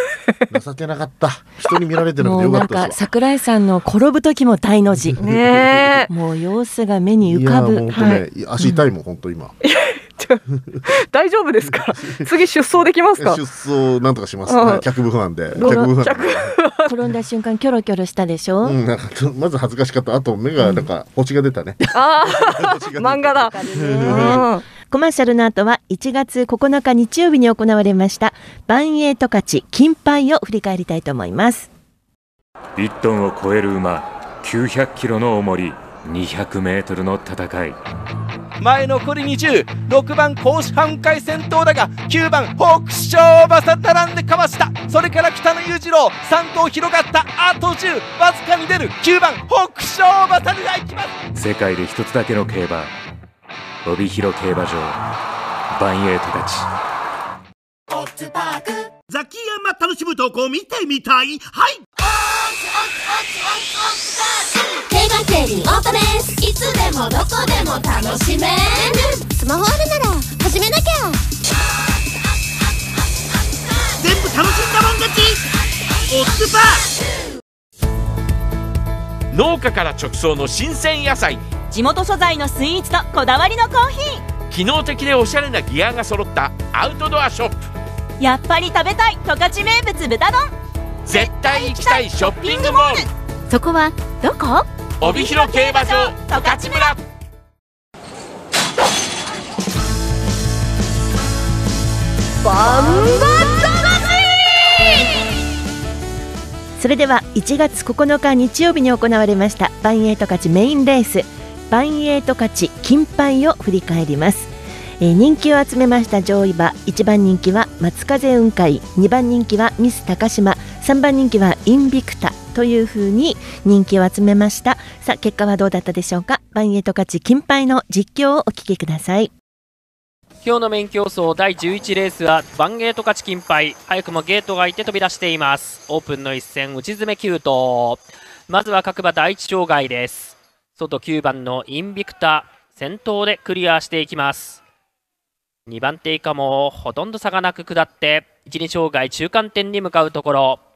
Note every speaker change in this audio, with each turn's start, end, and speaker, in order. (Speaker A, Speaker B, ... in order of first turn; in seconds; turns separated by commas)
Speaker A: 0.5-3.0, Speaker B: 2.2-5.2, Speaker C: 5.2-6.1, Speaker B: 6.1-8.1, Speaker A: 7.2-9.6, Speaker C: 7.9-8.2, Speaker C: 9.6-13.4, Speaker A: 12.0-12.3, Speaker A: 13.2-16.6, Speaker C: 14.5-14.8, Speaker C: 15.6-16.9, Speaker B: 15.6-15.9, Speaker B: 16.9-18.8, Speaker A: 18.6-24.4, Speaker C: 21.9-24.6, Speaker B: 23.4-31.7, Speaker D: 32.8-37.8, Speaker E: 38.6-51.1, Speaker D: 51.3-52.9, Speaker D: 53.8-55.0, Speaker D: 55.7-56.7, Speaker F: 59.1-61.8, Speaker G: 62.1-71.2, Speaker F: 74.0-75.5, Speaker F: 76.1-76.9, Speaker H: 79.3-81.4, Speaker I: 81.7-84.3, Speaker H: 84.5-87.6, Speaker I: 88.2-90.5, Speaker H: 91.0-93.1, Speaker I: 91.1-92.9, Speaker G: 93.5-94.4, Speaker I: 94.4-96.9, Speaker H: 95.0-97.0, Speaker G: 102.6-103.4, Speaker I: 102.8-103.2, Speaker B: 106.8-129.3, Speaker J: 130.4-144.6, Speaker J: 145.7-150.6